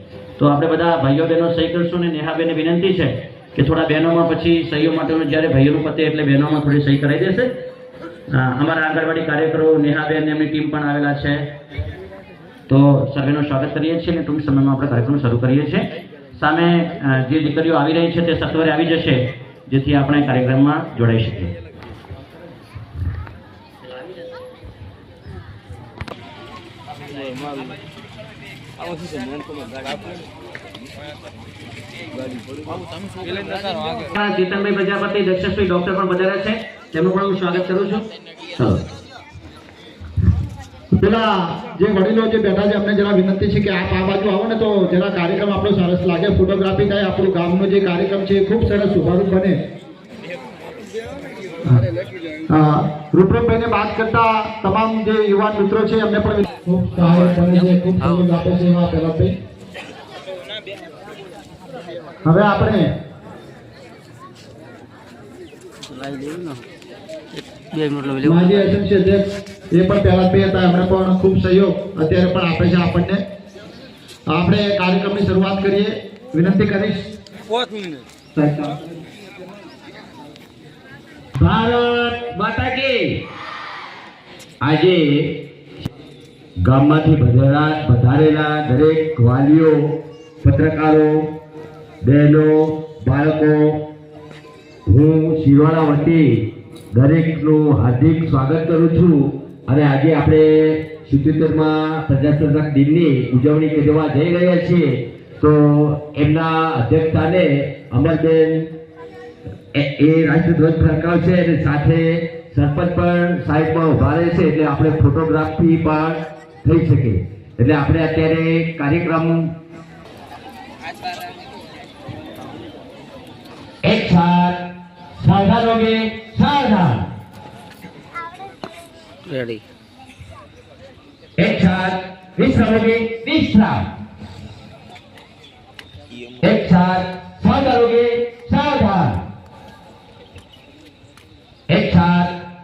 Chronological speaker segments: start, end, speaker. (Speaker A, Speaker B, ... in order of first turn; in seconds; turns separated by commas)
Speaker A: 0.4-7.5, Speaker A: 8.3-11.4, Speaker A: 12.7-21.5, Speaker A: 34.1-38.0, Speaker A: 38.6-38.8, Speaker B: 40.9-49.6, Speaker B: 52.5-59.3, Speaker C: 58.0-58.3, Speaker B: 62.2-62.9, Speaker C: 65.9-66.7, Speaker C: 67.4-68.7, Speaker B: 68.2-73.2, Speaker B: 74.3-77.1, Speaker B: 78.3-78.8, Speaker D: 81.4-83.2, Speaker D: 84.6-85.4, Speaker D: 86.6-91.3, Speaker D: 92.0-93.9, Speaker D: 94.8-108.7, Speaker D: 109.7-119.5, Speaker D: 123.8-124.6, Speaker D: 125.2-127.1, Speaker C: 129.3-129.6, Speaker D: 131.4-133.9, Speaker D: 136.4-139.2, Speaker D: 141.7-142.3